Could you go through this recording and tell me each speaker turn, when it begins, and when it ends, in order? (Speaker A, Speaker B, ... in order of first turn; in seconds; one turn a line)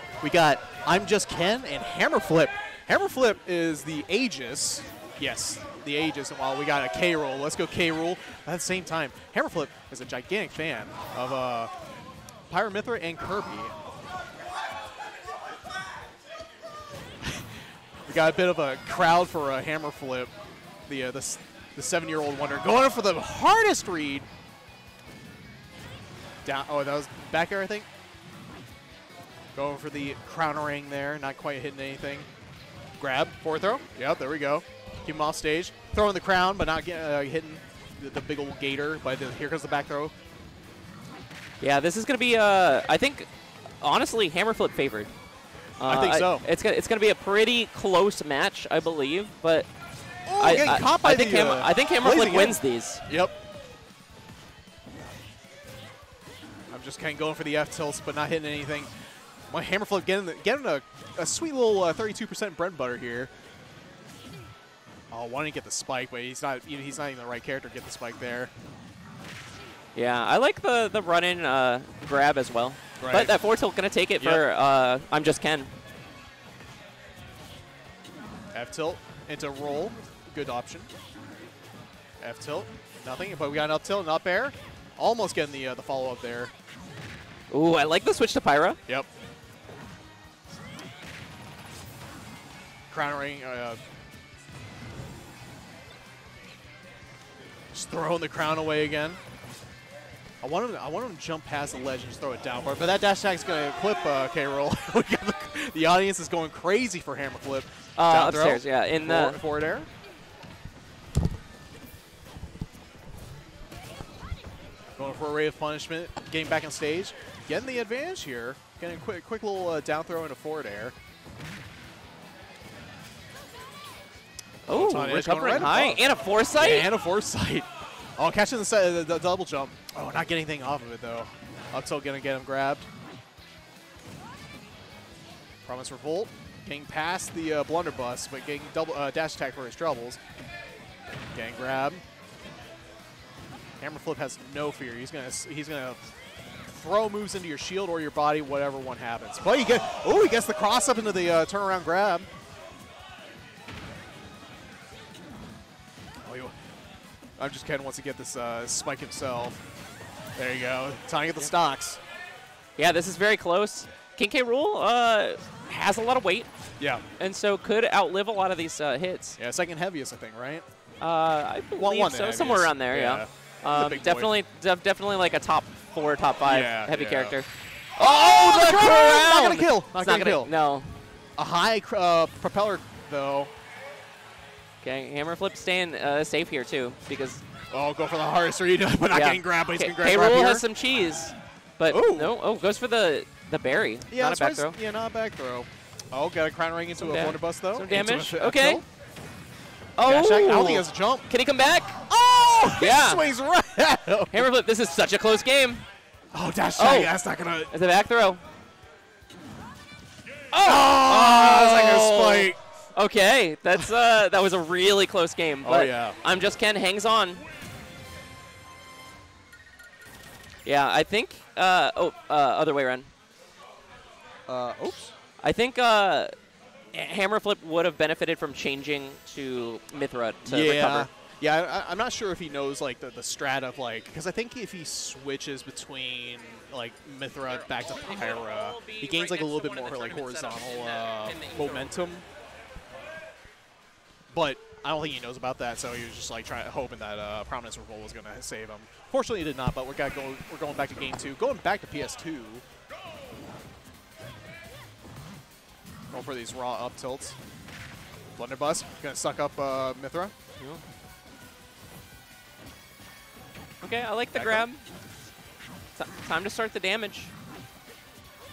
Speaker A: 0.2-11.7
Speaker A: 12.5-13.8
Speaker A: 17.2-20.3
Speaker A: 20.9-24.3
Speaker A: 26.4-27.9
Speaker A: 29.6-32.3
Speaker A: 33.0-40.1
Speaker B: 41.6-43.3
Speaker B: 43.8-45.1
Speaker B: 45.8-49.7
Speaker A: 45.9-46.5
Speaker A: 50.3-53.4
Speaker B: 50.4-53.0
Speaker A: 56.7-58.9
Speaker A: 59.5-63.3
Speaker A: 65.1-68.5
Speaker B: 70.0-75.7
Speaker A: 73.0-73.3
Speaker A: 74.2-74.5
Speaker A: 78.5-80.9
Speaker A: 82.2-86.5
Speaker B: 87.5-88.8
Speaker A: 92.9-93.8
Speaker A: 97.7-99.2
Speaker A: 100.4-109.9
Speaker B: 108.0-109.4
Speaker A: 115.0-121.0
Speaker B: 124.7-126.9
Speaker A: 124.7-132.9
Speaker A: 135.7-140.2
Speaker A: 141.3-142.0
Speaker A: 143.8-146.0
Speaker A: 146.7-152.3
Speaker A: 156.2-156.5
Speaker A: 157.4-159.6
Speaker A: 160.4-162.0
Speaker B: 162.8-166.5
Speaker A: 166.8-167.0
Speaker B: 167.2-169.4
Speaker A: 169.4-170.7
Speaker B: 171.0-181.0
Speaker A: 171.8-174.4
Speaker A: 176.4-177.4
Speaker A: 178.0-180.5
Speaker A: 181.4-183.5
Speaker B: 184.8-187.4
Speaker A: 187.7-190.7
Speaker B: 189.1-194.8
Speaker A: 191.9-192.3
Speaker A: 194.1-198.8
Speaker B: 197.0-198.8
Speaker B: 200.0-202.0
Speaker A: 200.0-201.3
Speaker A: 202.1-204.5
Speaker B: 202.8-203.2
Speaker B: 204.3-205.9
Speaker A: 206.3-207.7
Speaker B: 206.8-207.2
Speaker B: 207.7-208.4
Speaker B: 210.5-217.4
Speaker A: 210.6-212.6
Speaker A: 215.6-216.2
Speaker B: 220.7-223.1
Speaker A: 224.5-225.1
Speaker B: 225.4-226.3
Speaker B: 226.9-231.1
Speaker A: 230.5-242.2
Speaker B: 237.5-242.0
Speaker A: 244.3-252.6
Speaker A: 256.1-257.4
Speaker A: 258.4-260.3
Speaker B: 263.8-264.8
Speaker A: 264.4-264.7
Speaker B: 266.0-267.3